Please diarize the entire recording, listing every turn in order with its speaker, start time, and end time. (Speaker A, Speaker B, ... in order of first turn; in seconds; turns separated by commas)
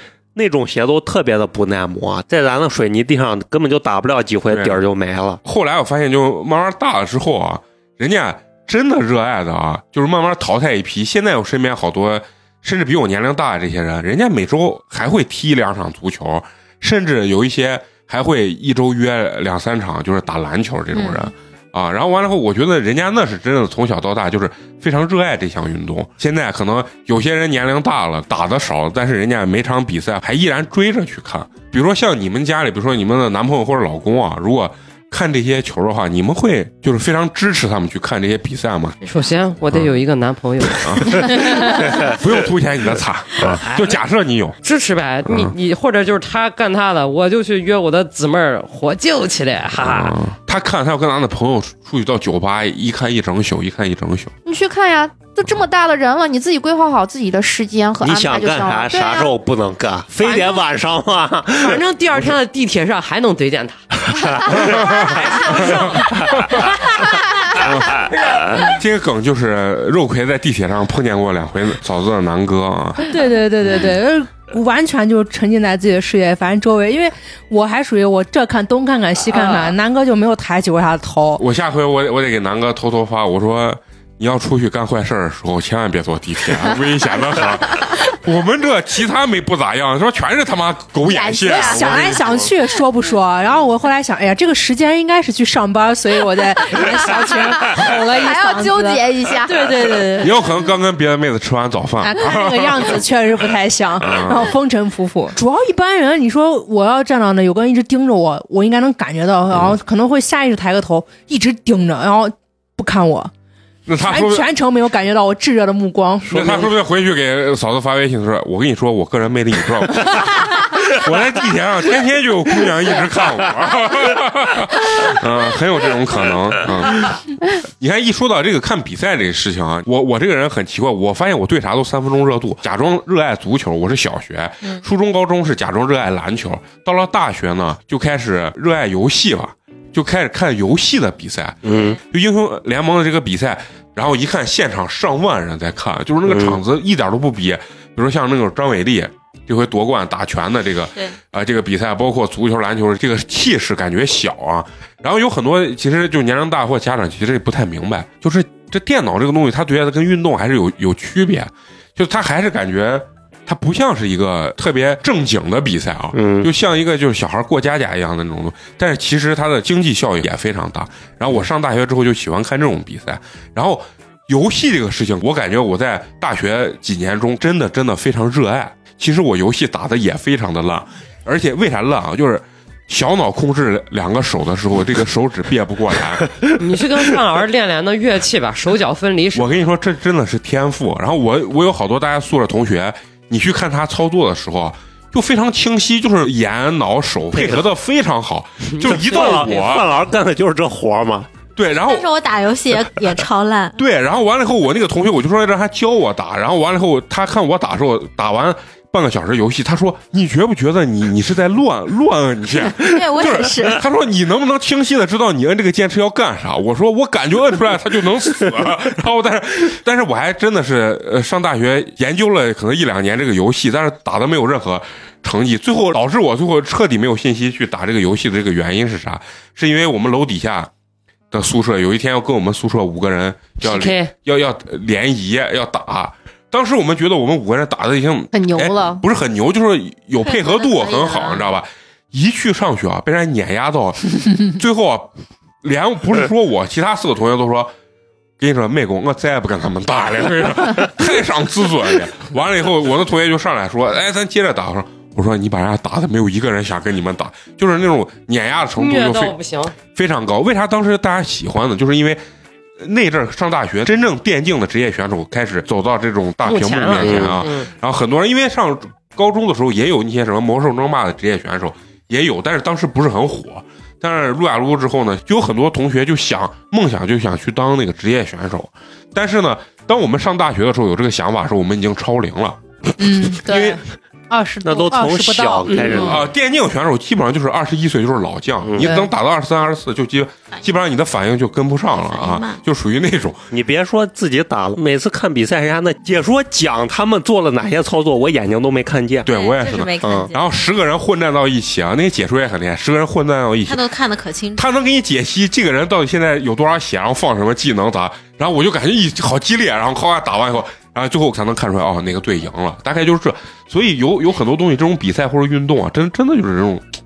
Speaker A: 0.3-5.4, Speaker B: 4.5-4.8, Speaker B: 5.4-39.0, Speaker C: 39.0-42.1, Speaker B: 40.7-44.6, Speaker C: 43.7-44.0, Speaker C: 44.6-50.2, Speaker B: 45.2-45.5, Speaker B: 49.8-54.3, Speaker D: 54.5-59.3, Speaker A: 58.0-61.8, Speaker C: 60.2-60.6, Speaker C: 61.6-66.7, Speaker A: 64.1-64.6, Speaker B: 64.7-66.6, Speaker B: 67.6-68.0, Speaker B: 68.6-73.1, Speaker E: 73.0-81.4, Speaker B: 81.4-92.5, Speaker D: 91.1-92.1, Speaker E: 91.3-100.5, Speaker D: 97.6-99.9, Speaker B: 100.2-103.0, Speaker E: 102.0-113.3, Speaker B: 104.0-104.5, Speaker B: 109.5-109.8, Speaker B: 113.9-114.5, Speaker E: 114.0-116.7, Speaker B: 116.3-186.3, Speaker A: 141.6-142.0, Speaker A: 146.3-146.6, Speaker A: 166.1-166.5, Speaker C: 186.6-189.5, Speaker B: 189.3-199.9, Speaker A: 197.3-197.7, Speaker A: 198.8-201.3, Speaker C: 198.9-199.4, Speaker B: 201.6-202.1, Speaker F: 201.8-203.8, Speaker B: 203.8-230.7, Speaker F: 212.8-213.8, Speaker B: 231.3-247.7, Speaker C: 233.6-234.1, Speaker D: 238.3-239.0, Speaker F: 240.2-241.5, Speaker B: 248.4-259.4, Speaker C: 258.8-259.7, Speaker B: 259.9-262.2, Speaker B: 262.8-283.8, Speaker C: 266.4-267.7, Speaker A: 267.0-267.4, Speaker E: 283.0-286.1, Speaker A: 284.6-286.2, Speaker B: 286.0-293.5, Speaker A: 288.6-288.9, Speaker E: 288.8-289.1, Speaker F: 291.9-292.6, Speaker A: 293.5-299.3, Speaker B: 299.2-303.9, Speaker F: 299.3-300.6, Speaker A: 300.0-300.3, Speaker F: 303.6-304.6, Speaker B: 304.6-316.9